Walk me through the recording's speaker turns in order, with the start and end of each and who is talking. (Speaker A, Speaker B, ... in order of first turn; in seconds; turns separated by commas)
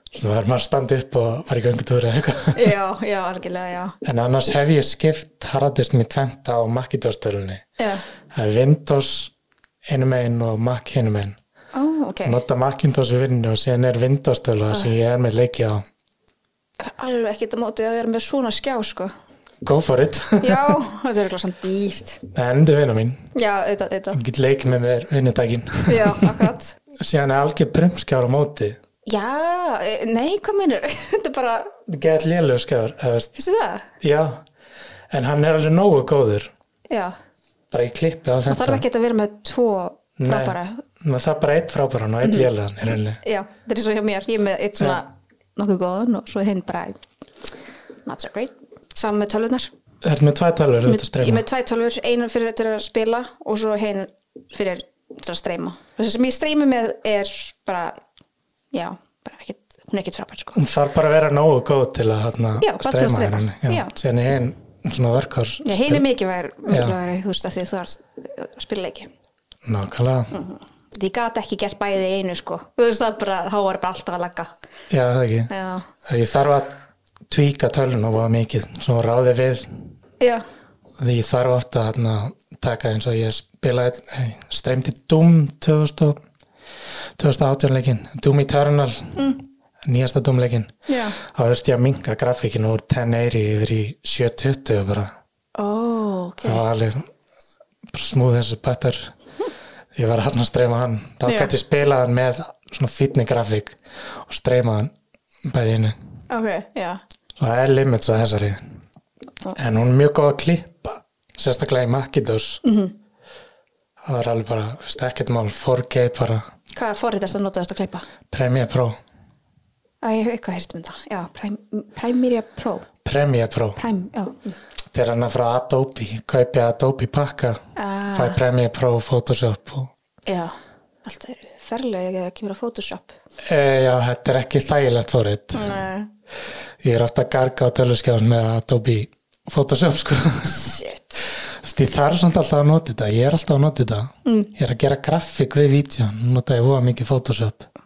Speaker A: 0.1-2.8, Speaker B: 2.5-4.0, Speaker A: 4.0-7.7, Speaker B: 7.8-8.1, Speaker A: 8.3-9.3, Speaker A: 9.8-11.4, Speaker B: 11.7-12.4, Speaker A: 12.2-15.8, Speaker B: 16.8-19.1, Speaker A: 19.6-20.8, Speaker B: 20.4-22.2, Speaker A: 22.3-23.2, Speaker B: 23.4-24.2, Speaker A: 24.1-28.8, Speaker B: 25.9-26.8, Speaker B: 29.1-31.8, Speaker A: 31.9-33.3, Speaker B: 33.4-33.9, Speaker A: 34.0-34.4, Speaker A: 35.1-36.5, Speaker B: 36.9-37.1, Speaker A: 37.7-38.8, Speaker B: 38.5-40.8, Speaker A: 40.2-43.2, Speaker B: 43.2-47.0, Speaker B: 48.1-49.7, Speaker A: 50.0-51.4, Speaker B: 50.9-58.0, Speaker B: 58.7-60.6, Speaker A: 60.5-66.0, Speaker B: 62.6-63.9, Speaker B: 65.6-69.1, Speaker A: 66.7-67.0, Speaker A: 69.7-70.3, Speaker B: 70.3-74.5, Speaker A: 74.9-75.5, Speaker B: 75.5-75.9, Speaker A: 76.0-76.7, Speaker A: 77.3-79.9, Speaker A: 81.0-86.2, Speaker A: 87.2-89.3, Speaker B: 89.2-89.4, Speaker A: 89.8-95.1, Speaker B: 90.9-91.2, Speaker B: 95.6-96.6, Speaker A: 96.5-97.1, Speaker A: 97.9-99.1, Speaker A: 99.9-104.9, Speaker B: 101.3-101.5, Speaker A: 105.5-106.0, Speaker B: 106.3-107.0, Speaker A: 107.4-108.6, Speaker A: 109.5-112.6, Speaker B: 112.6-112.9, Speaker A: 114.0-116.5, Speaker B: 116.7-118.1, Speaker A: 118.3-119.0, Speaker B: 120.0-122.9, Speaker A: 123.0-123.8, Speaker B: 123.8-124.6, Speaker A: 124.9-127.6, Speaker B: 127.8-128.4, Speaker A: 128.1-129.9, Speaker B: 130.3-133.1, Speaker A: 133.4-135.7, Speaker B: 135.5-136.1, Speaker A: 136.8-140.7, Speaker B: 140.4-141.2, Speaker A: 141.6-147.7, Speaker B: 144.2-144.5